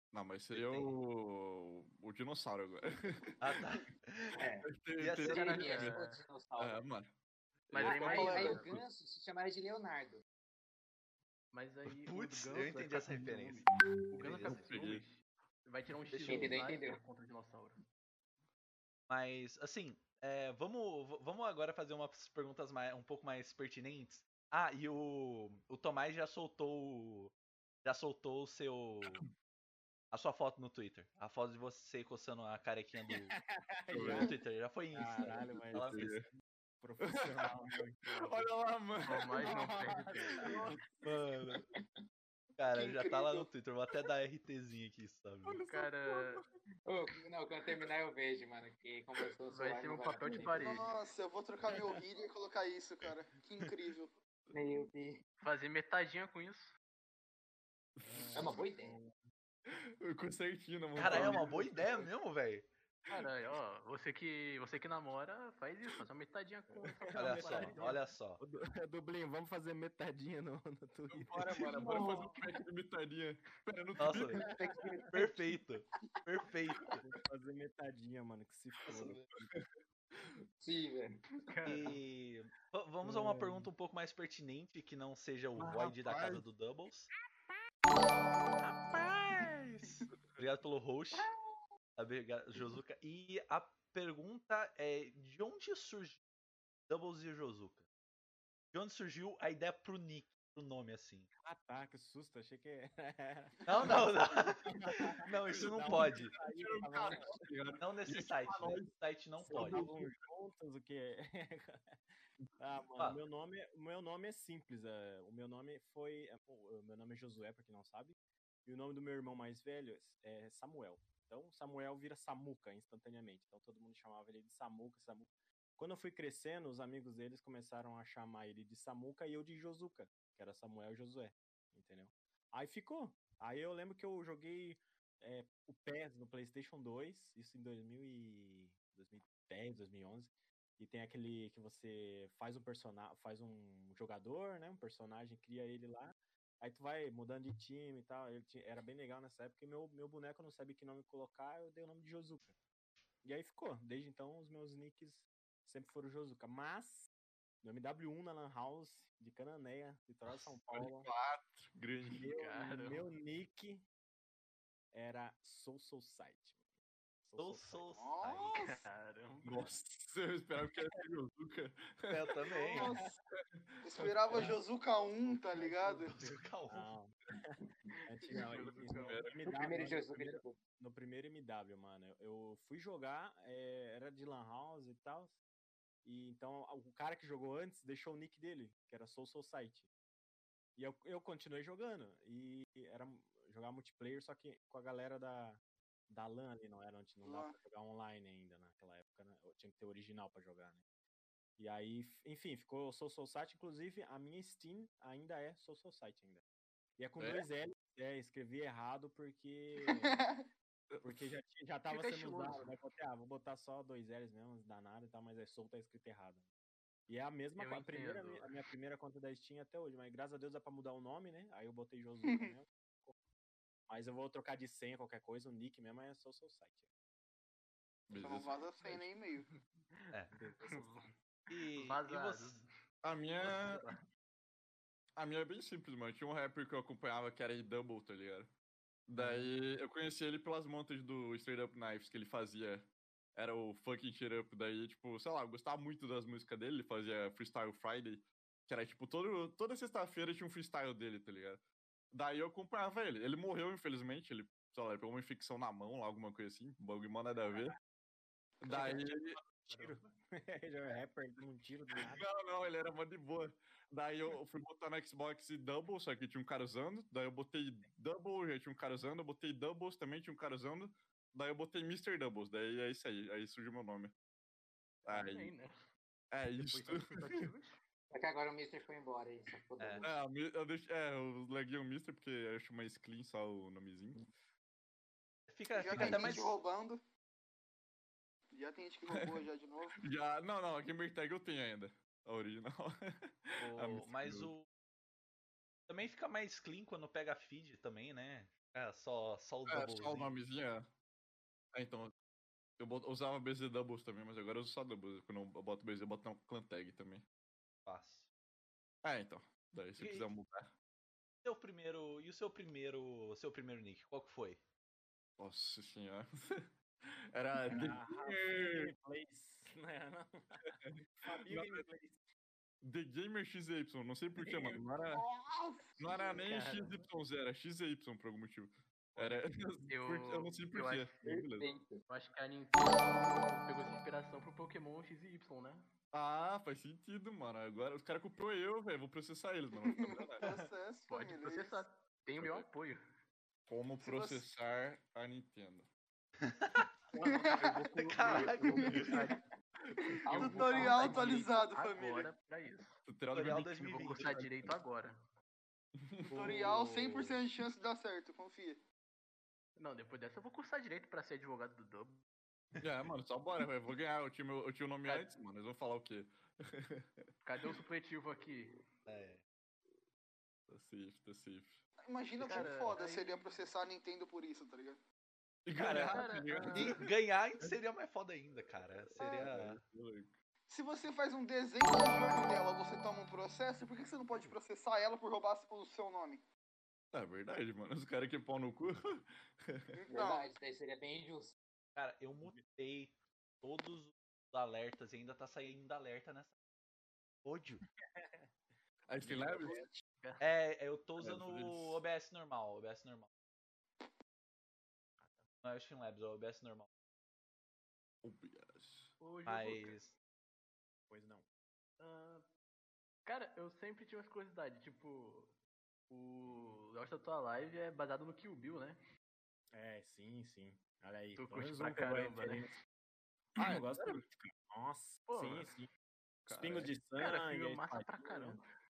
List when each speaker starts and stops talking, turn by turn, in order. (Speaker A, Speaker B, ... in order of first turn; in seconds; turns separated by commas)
Speaker A: 0.1-3.5, Speaker B: 0.5-0.9, Speaker B: 3.4-4.4, Speaker C: 4.4-4.7, Speaker A: 4.6-6.0, Speaker B: 5.0-5.6, Speaker C: 5.2-6.8, Speaker D: 5.2-6.2, Speaker A: 6.6-7.1, Speaker A: 7.7-8.8, Speaker D: 7.7-8.7, Speaker C: 7.8-10.2, Speaker D: 11.5-17.8, Speaker B: 12.1-14.8, Speaker A: 14.4-15.0, Speaker C: 16.1-17.0, Speaker B: 19.1-29.2, Speaker A: 29.1-29.3, Speaker B: 30.1-33.4, Speaker E: 33.4-34.3, Speaker A: 33.9-34.3, Speaker B: 34.0-36.0, Speaker E: 34.9-38.0, Speaker A: 35.7-36.3, Speaker A: 37.0-40.6, Speaker D: 38.1-38.4, Speaker D: 39.0-40.7, Speaker E: 39.4-40.8, Speaker B: 41.0-41.6, Speaker B: 42.6-45.6, Speaker F: 42.7-43.5, Speaker A: 45.4-46.4, Speaker D: 45.7-46.4, Speaker C: 46.9-50.9, Speaker D: 49.5-50.9, Speaker F: 50.6-54.1, Speaker C: 54.5-55.2, Speaker D: 55.4-56.7, Speaker A: 58.0-59.2, Speaker C: 58.3-59.0, Speaker A: 59.7-62.1, Speaker B: 61.0-62.7, Speaker D: 63.1-68.0, Speaker E: 67.1-67.9, Speaker B: 67.2-68.4, Speaker E: 68.5-71.6, Speaker A: 71.1-74.5, Speaker C: 71.8-72.6, Speaker B: 74.0-74.4, Speaker C: 74.4-75.3, Speaker E: 74.6-75.0, Speaker B: 75.1-77.0, Speaker E: 77.1-79.5, Speaker B: 78.9-79.2, Speaker A: 80.2-80.4, Speaker C: 80.6-81.2, Speaker D: 81.5-81.9, Speaker B: 81.7-87.1, Speaker E: 83.0-83.7, Speaker A: 85.6-86.4, Speaker B: 88.6-91.3, Speaker B: 92.0-96.2, Speaker B: 96.9-97.9, Speaker B: 98.7-101.3, Speaker E: 101.4-107.4, Speaker B: 103.6-106.3, Speaker A: 105.5-108.9, Speaker B: 107.8-109.8, Speaker E: 109.4-111.9, Speaker A: 109.5-110.3, Speaker E: 112.6-152.5, Speaker E: 153.2-157.1, Speaker E: 157.6-161.1, Speaker A: 160.7-162.3, Speaker E: 162.2-163.8, Speaker D: 162.3-163.0, Speaker E: 164.9-166.6, Speaker E: 167.2-167.8, Speaker B: 167.4-168.7, Speaker F: 167.9-168.8, Speaker D: 168.5-169.7, Speaker A: 169.4-172.4, Speaker B: 172.1-172.9, Speaker F: 172.5-173.0, Speaker E: 172.7-173.2, Speaker A: 173.3-174.6, Speaker F: 173.8-176.4, Speaker E: 175.2-176.0, Speaker B: 176.1-176.9, Speaker E: 176.7-185.4, Speaker D: 178.3-179.4, Speaker A: 178.9-179.8, Speaker C: 179.5-180.6, Speaker E: 186.1-189.9, Speaker E: 190.8-200.8, Speaker F: 197.2-197.6, Speaker E: 201.6-206.4, Speaker E: 207.0-210.2, Speaker A: 207.2-207.4, Speaker F: 209.8-210.4, Speaker A: 210.9-211.3, Speaker E: 211.0-216.4, Speaker D: 211.9-212.7, Speaker E: 217.1-223.1, Speaker D: 217.6-218.5, Speaker F: 222.3-222.5, Speaker E: 223.9-226.8, Speaker A: 228.1-229.0, Speaker F: 228.2-229.4, Speaker E: 230.3-231.2, Speaker D: 230.6-232.7, Speaker B: 231.5-232.6, Speaker A: 233.0-233.8, Speaker D: 233.4-234.0, Speaker A: 235.2-238.5, Speaker A: 239.1-251.6, Speaker E: 239.2-239.4, Speaker A: 252.1-257.8, Speaker A: 258.6-259.4, Speaker E: 258.7-262.2, Speaker D: 259.6-260.1, Speaker A: 262.0-274.1, Speaker A: 275.1-275.5, Speaker D: 275.1-275.7, Speaker A: 276.3-277.5, Speaker D: 276.6-277.8, Speaker C: 278.1-280.1, Speaker B: 279.8-280.0, Speaker A: 280.0-284.3, Speaker B: 285.5-286.6, Speaker F: 285.8-287.0, Speaker A: 286.0-286.2, Speaker F: 288.5-290.0, Speaker A: 289.1-289.4, Speaker A: 290.0-294.5, Speaker B: 293.6-294.6, Speaker B: 295.9-300.3, Speaker A: 299.7-300.9, Speaker A: 301.7-302.1, Speaker A: 302.8-307.2, Speaker B: 307.9-308.3, Speaker A: 309.0-310.7, Speaker B: 310.0-310.3, Speaker B: 311.4-314.6, Speaker A: 315.4-318.9, Speaker E: 317.7-322.2, Speaker A: 320.6-321.9, Speaker A: 322.8-325.2, Speaker E: 324.4-324.8, Speaker F: 325.1-326.4, Speaker A: 326.0-331.6, Speaker D: 326.5-327.1, Speaker D: 329.9-331.2, Speaker C: 331.2-332.0, Speaker D: 332.1-335.9, Speaker A: 336.1-340.4, Speaker F: 339.8-341.8, Speaker D: 341.1-343.0, Speaker A: 342.4-342.6, Speaker A: 343.7-345.9, Speaker F: 344.0-344.4, Speaker B: 346.4-346.9, Speaker D: 347.2-349.4, Speaker F: 347.2-349.1, Speaker B: 348.0-349.1, Speaker C: 350.2-351.5, Speaker F: 350.3-352.3, Speaker D: 350.3-355.1, Speaker A: 350.4-350.9, Speaker A: 353.1-354.8, Speaker B: 353.3-354.3, Speaker A: 356.0-356.8, Speaker F: 356.3-358.8, Speaker B: 356.5-357.4, Speaker D: 359.8-362.2, Speaker A: 362.8-367.8, Speaker D: 365.1-365.4, Speaker D: 367.4-368.8, Speaker B: 369.1-369.4, Speaker A: 370.7-371.8, Speaker F: 372.0-375.0, Speaker D: 372.4-373.6, Speaker A: 375.6-377.1, Speaker B: 375.8-376.2, Speaker D: 376.1-377.0, Speaker B: 376.7-379.8, Speaker A: 379.2-380.4, Speaker F: 379.2-379.5, Speaker F: 380.7-386.4, Speaker A: 387.1-390.0, Speaker F: 389.9-390.5, Speaker C: 390.1-391.5, Speaker B: 392.0-396.5, Speaker B: 397.4-397.8, Speaker E: 398.1-398.5, Speaker A: 399.1-400.0, Speaker E: 399.2-399.9, Speaker B: 400.4-403.3, Speaker A: 401.2-402.0, Speaker B: 405.6-406.9, Speaker A: 408.2-409.1, Speaker D: 409.2-410.0, Speaker B: 409.5-410.1, Speaker E: 411.1-411.4, Speaker D: 412.0-412.4, Speaker D: 413.2-415.5, Speaker D: 416.1-419.0, Speaker E: 419.7-422.7, Speaker D: 421.4-422.7, Speaker A: 423.6-424.2, Speaker E: 423.6-425.9, Speaker D: 425.3-425.7, Speaker A: 426.5-426.9, Speaker E: 426.6-428.6, Speaker D: 427.2-428.6